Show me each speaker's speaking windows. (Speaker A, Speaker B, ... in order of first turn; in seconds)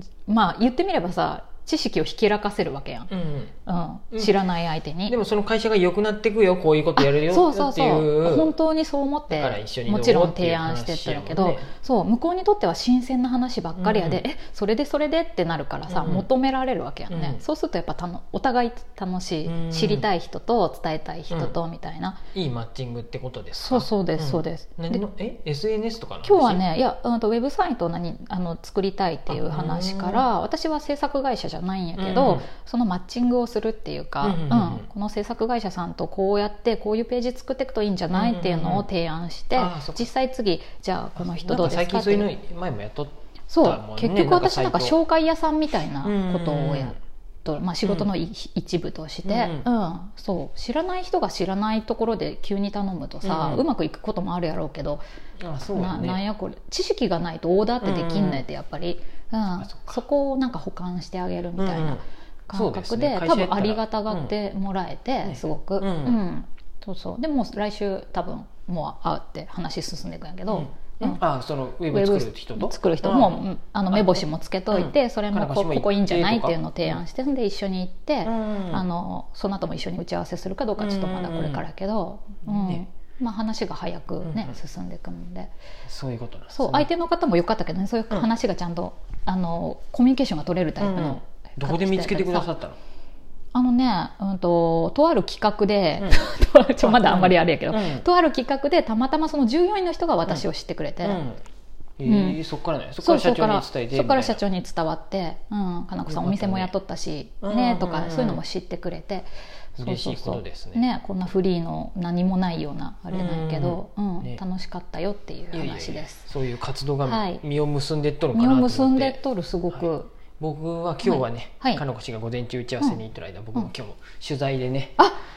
Speaker A: 0.2-3.1, 3.7-5.2, 7.0-22.2, 23.6-25.0, 26.2-42.3, 43.5-55.0, 55.7-71.2, 71.9-85.5, 86.5-92.5, 93.5-101.2, 102.1-102.4, 103.0-109.3, 109.8-116.2, 117.0-117.4, 118.3-120.1, 121.0-121.8
Speaker B: 3.1-3.5, 5.1-8.5, 9.3-11.7, 13.8-14.2, 15.9-16.3, 17.1-17.4, 19.4-20.1, 22.3-26.6, 29.3-30.2, 32.0-32.5, 34.2-34.9, 38.1-38.9, 39.5-40.1, 41.2-45.0, 46.0-47.0, 49.2-49.7, 53.2-53.6, 55.4-56.2, 57.8-58.4, 59.5-60.0, 61.6-64.3, 65.2-66.2, 70.5-77.0, 78.2-78.8, 80.8-81.6, 82.5-82.8, 84.2-84.6, 85.9-86.9, 90.8-92.8, 96.8-98.0, 101.0-101.4, 102.0-104.4, 106.1-106.7, 107.4-108.4, 109.8-110.8, 113.1-114.4, 115.5-119.2, 120.4-125.0